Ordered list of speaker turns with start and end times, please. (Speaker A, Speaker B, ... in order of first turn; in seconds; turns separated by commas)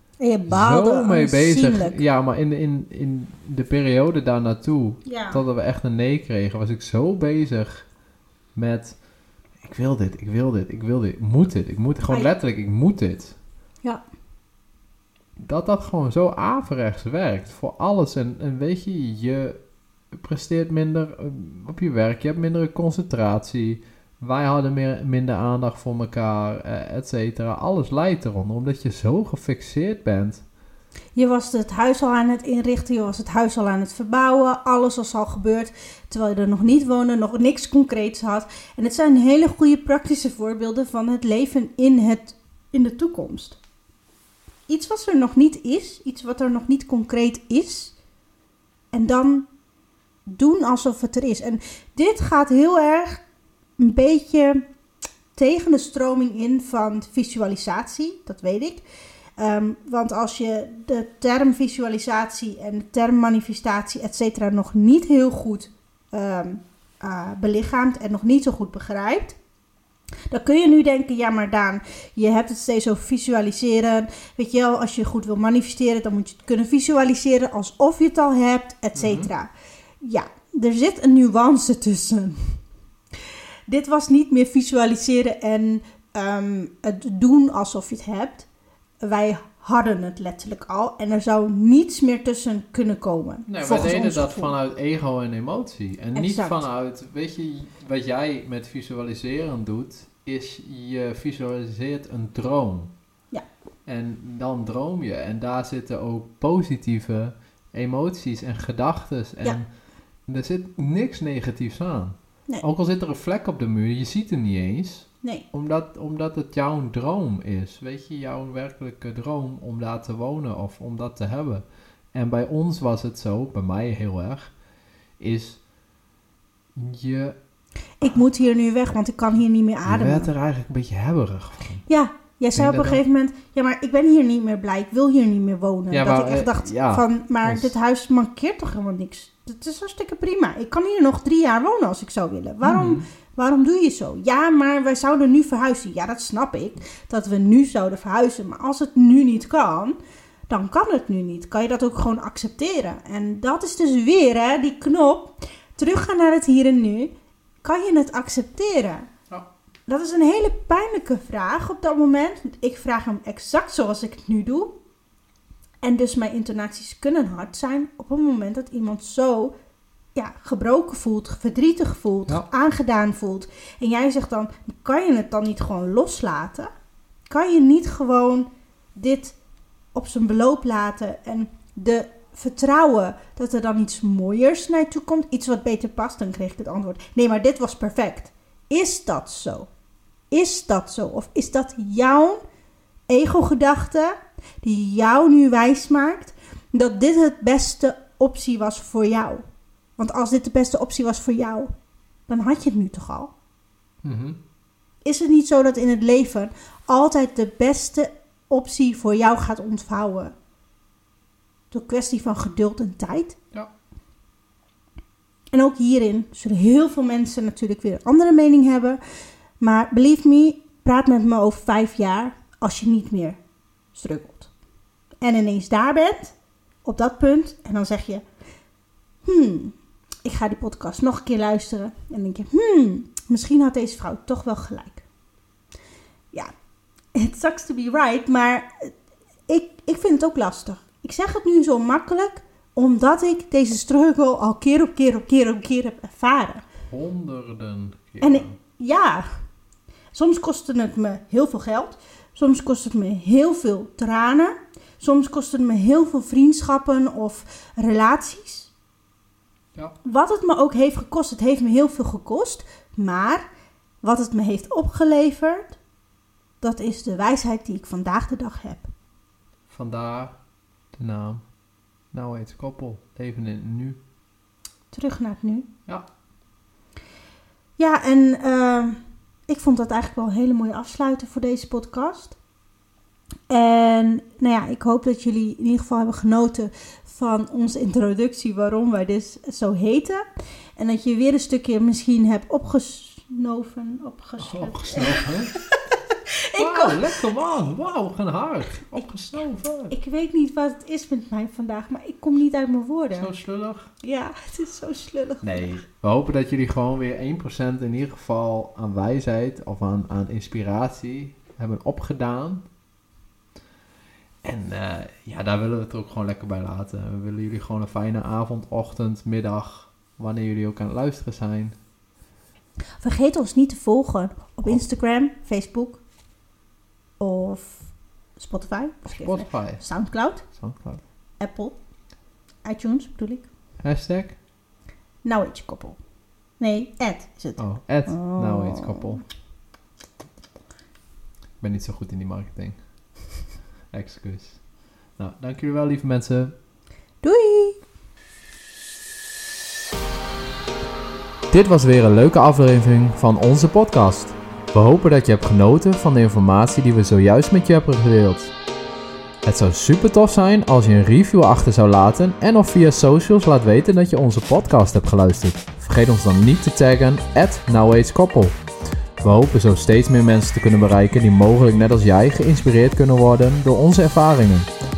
Speaker A: 0.2-2.0, Speaker B: 0.5-7.8, Speaker A: 5.0-5.4, Speaker B: 8.5-9.0, Speaker B: 9.6-13.3, Speaker B: 15.4-19.6, Speaker B: 20.1-30.4, Speaker A: 31.1-43.6, Speaker A: 44.7-47.9, Speaker A: 48.9-49.5, Speaker A: 50.3-53.2, Speaker A: 53.8-54.6, Speaker A: 55.3-58.8, Speaker A: 59.4-69.4, Speaker A: 70.3-79.5, Speaker B: 79.0-79.3, Speaker A: 80.0-82.6, Speaker A: 83.7-88.5, Speaker A: 89.0-94.5, Speaker B: 93.5-102.9, Speaker A: 96.1-96.6, Speaker B: 103.8-109.7, Speaker B: 110.2-124.5, Speaker B: 125.2-125.6, Speaker B: 126.7-127.4, Speaker A: 128.0-130.3, Speaker B: 129.8-131.8, Speaker A: 131.9-149.9, Speaker B: 132.6-133.0, Speaker B: 135.9-137.7, Speaker B: 142.6-143.1, Speaker A: 150.5-157.1, Speaker A: 157.6-159.1, Speaker A: 159.9-164.8, Speaker A: 165.8-169.6, Speaker A: 170.1-176.7, Speaker A: 177.3-179.3, Speaker A: 179.9-189.7, Speaker A: 190.3-192.4, Speaker A: 193.1-199.4, Speaker A: 200.0-201.7, Speaker A: 202.3-203.3, Speaker B: 204.0-204.4, Speaker A: 205.0-210.3, Speaker A: 211.7-213.4, Speaker A: 215.5-219.0, Speaker A: 219.6-223.4, Speaker A: 223.9-224.5, Speaker A: 225.2-228.2, Speaker A: 229.2-235.0, Speaker A: 237.1-238.9, Speaker A: 239.5-246.6, Speaker B: 246.9-248.6, Speaker A: 248.2-249.2, Speaker A: 250.1-258.7, Speaker A: 260.0-263.4, Speaker A: 264.0-265.8, Speaker A: 266.6-268.9, Speaker B: 269.7-270.4, Speaker B: 270.9-271.4, Speaker B: 272.1-274.0, Speaker A: 274.9-275.7, Speaker A: 277.8-282.4, Speaker A: 283.5-290.2, Speaker A: 290.8-295.3, Speaker B: 294.4-295.5, Speaker A: 295.9-297.1, Speaker B: 296.6-299.9, Speaker A: 299.9-303.3, Speaker B: 303.1-303.9, Speaker A: 304.0-305.8, Speaker B: 305.4-312.6, Speaker B: 314.4-321.8, Speaker A: 323.0-326.0, Speaker A: 327.2-330.4, Speaker B: 329.1-329.8, Speaker B: 330.5-331.0, Speaker A: 331.4-331.8, Speaker A: 332.6-333.5, Speaker B: 333.8-334.4, Speaker A: 335.2-336.0, Speaker A: 336.6-339.2, Speaker B: 337.6-339.2, Speaker B: 341.6-342.8, Speaker B: 343.9-344.6, Speaker B: 345.2-346.5, Speaker A: 347.2-347.8, Speaker B: 351.5-358.5, Speaker B: 359.4-368.6, Speaker B: 369.2-374.7